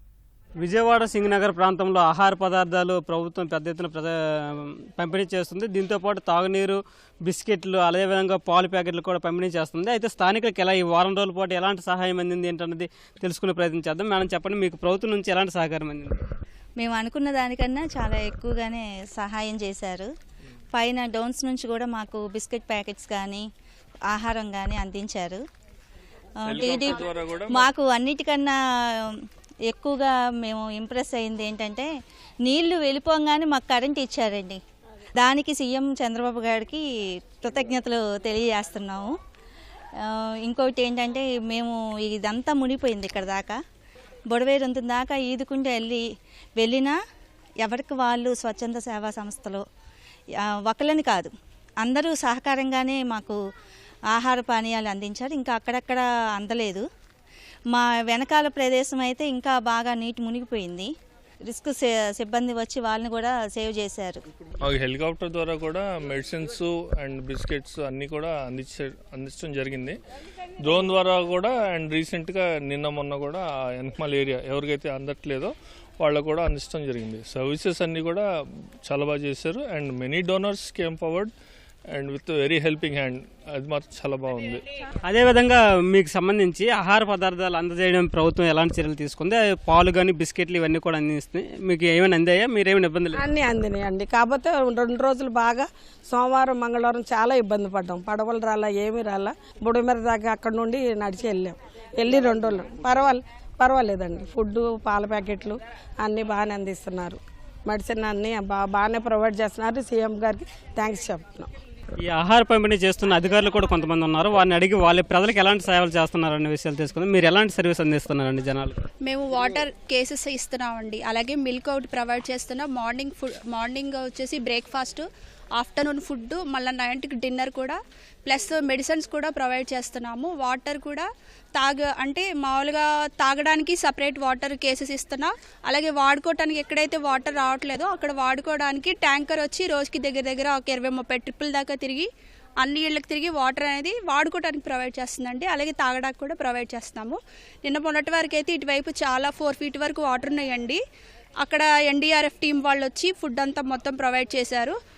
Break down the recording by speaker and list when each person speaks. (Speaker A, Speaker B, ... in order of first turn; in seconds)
Speaker A: 0.6-16.2, 85.0-93.2, 112.0-118.8
Speaker B: 16.8-20.1, 20.7-23.5, 24.1-25.4, 26.5-27.0, 27.5-31.9, 32.4-34.6, 35.2-36.8, 37.4-39.1, 40.0-43.6, 44.3-46.0, 46.6-47.0, 47.6-49.6, 50.7-51.3, 51.8-53.4, 54.1-56.8, 57.7-60.9, 61.5-64.2
Speaker C: 26.4-27.7, 64.6-70.0, 70.6-78.2, 78.8-81.3, 81.9-84.6
Speaker D: 93.1-111.5
Speaker E: 119.0-125.0, 125.6-142.1, 142.6-150.8, 151.4-154.8